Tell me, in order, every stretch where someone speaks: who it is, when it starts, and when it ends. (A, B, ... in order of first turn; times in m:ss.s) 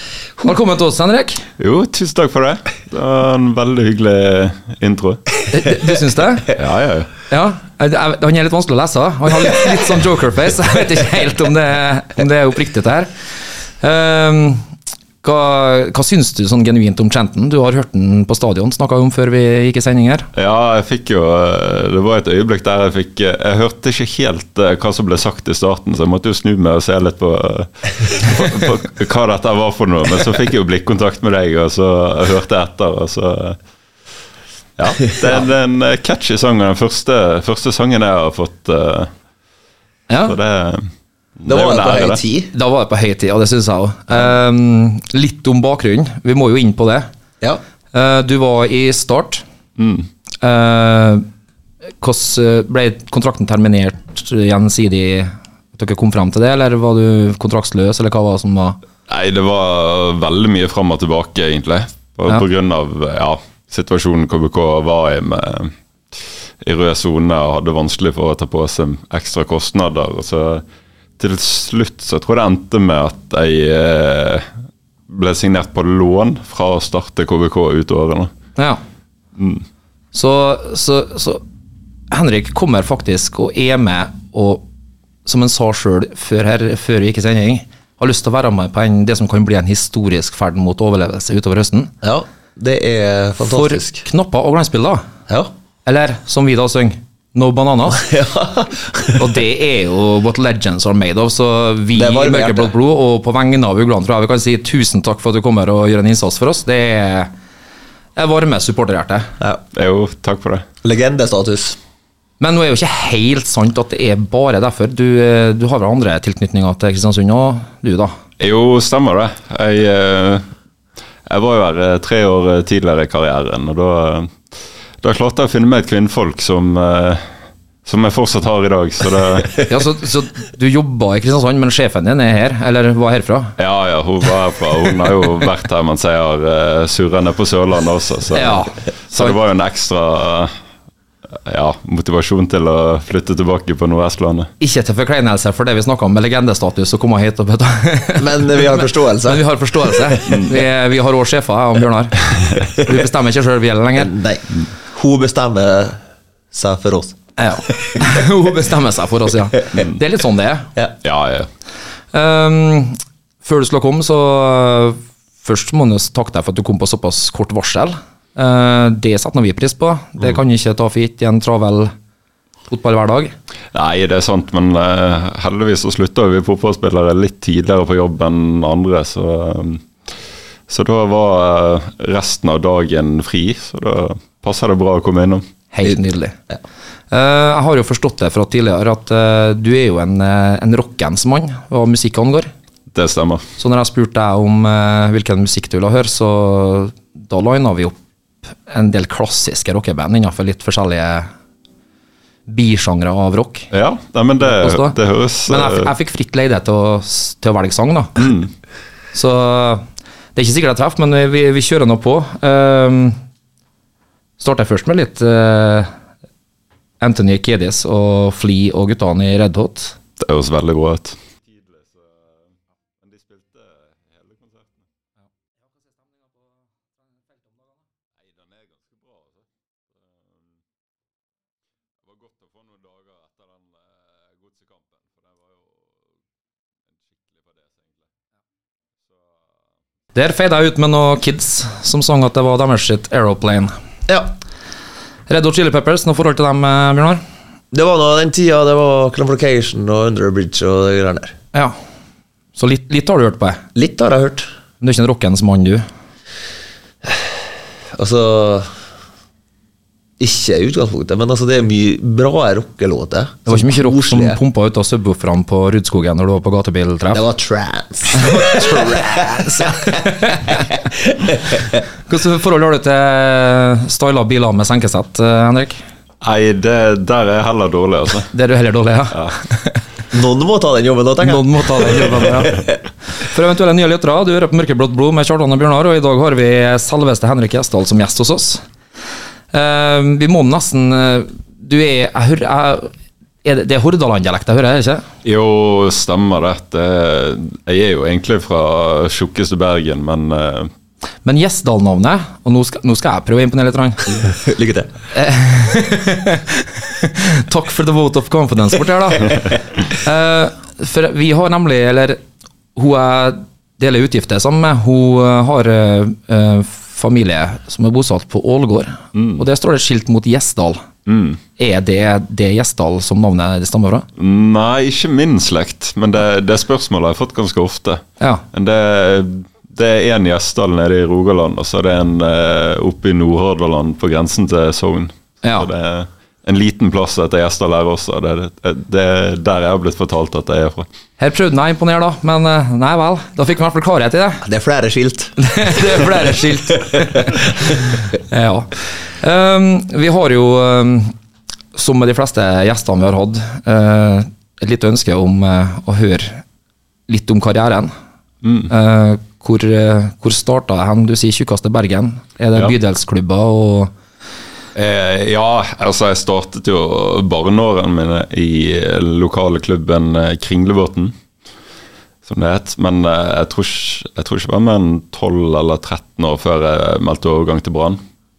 0:00.4-0:01.4 A
0:01.6-0:05.2 B
0:05.5-0:06.5 A
0:06.5-0:07.1 B
0:07.3-0:13.1 A
0:13.8-0:14.7 A
0:15.2-0:20.3 A
0:20.3-0:33.6 B
0:34.8-0:39.1 B
0:40.1-0:40.4 A
0:40.2-0:42.2 B
0:41.4-0:42.5 C
0:42.5-0:47.1 A
0:47.9-0:49.4 A
0:49.8-0:50.1 B
0:50.4-0:51.2 A
0:52.0-0:58.8 A
0:59.1-1:05.7 B
1:06.6-1:10.6 B
1:11.2-1:14.5 B
1:15.1-1:18.3 B
1:19.4-1:19.6 B
1:20.1-1:21.4 A
1:22.1-1:24.6 A
1:25.3-1:31.9 A
1:32.0-1:34.0 C
1:33.4-1:35.1 A
1:35.9-1:38.1 A
1:38.0-1:39.2 C
1:39.2-1:47.3 A
1:42.0-1:42.7 C
1:48.2-1:49.3 A
1:49.7-1:50.7 B
1:50.8-1:51.8 C
1:52.4-1:58.1 A
1:58.4-2:00.5 B
2:01.3-2:04.4 B
2:05.0-2:07.3 B
2:07.8-2:09.6 B
2:09.7-2:13.6 A
2:13.6-2:20.5 B
2:18.3-2:19.4 A
2:21.3-2:24.5 B
2:24.6-2:34.1 A
2:28.2-2:30.4 C
2:34.0-2:36.0 C
2:36.5-2:37.2 C
2:37.4-2:40.7 A
2:41.0-2:41.5 B
2:42.1-2:51.9 A
2:52.7-2:53.3 A
2:53.7-2:59.8 B
3:00.7-3:05.4 B
3:05.7-3:06.4 A
3:07.1-3:12.5 A
3:12.9-3:13.4 B
3:13.6-3:18.0 A
3:18.5-3:21.3 A
3:22.5-3:23.7 A
3:23.7-3:25.9 B
3:24.4-3:25.0 A
3:25.5-3:28.3 A
3:28.2-3:28.5 B
3:29.1-3:29.8 A
3:30.4-3:33.2 A
3:34.4-3:35.9 A
3:37.0-3:40.0 A
3:40.2-3:42.3 B
3:43.0-3:44.9 B
3:48.4-3:49.4 B
3:52.1-3:53.7 B
3:54.3-3:55.4 B
3:57.3-3:57.9 B
4:00.2-4:03.7 A
4:05.3-4:07.2 A
4:07.7-4:11.3 C
4:12.6-4:13.6 A
4:13.8-4:14.5 C
4:14.8-4:15.8 A
4:17.9-4:18.7 C
4:20.2-4:24.4 C
4:23.5-4:27.2 A
4:27.1-4:31.8 C
4:28.1-4:30.7 A
4:32.1-4:35.8 A
4:36.2-4:38.3 B
4:38.3-4:39.8 A
4:40.1-4:42.7 C
4:41.2-4:42.6 A
4:43.2-4:48.6 A
4:49.5-4:52.9 A
4:53.4-4:55.1 A
4:55.2-5:00.7 B
5:01.2-5:04.3 A
5:04.3-5:04.9 C
5:05.1-5:12.2 A
5:12.8-5:20.9 A
5:19.2-5:19.4 B
5:21.1-5:21.4 B
5:21.6-5:24.1 A
5:24.2-5:40.9 B
5:41.2-5:44.4 A
5:44.4-5:46.0 C
5:45.4-5:51.1 A
5:46.8-5:47.6 C
5:51.8-5:56.4 A
5:57.1-5:57.9 A
5:58.4-5:58.7 B
5:58.7-6:03.9 A
6:04.7-6:11.1 B
6:12.3-6:18.0 B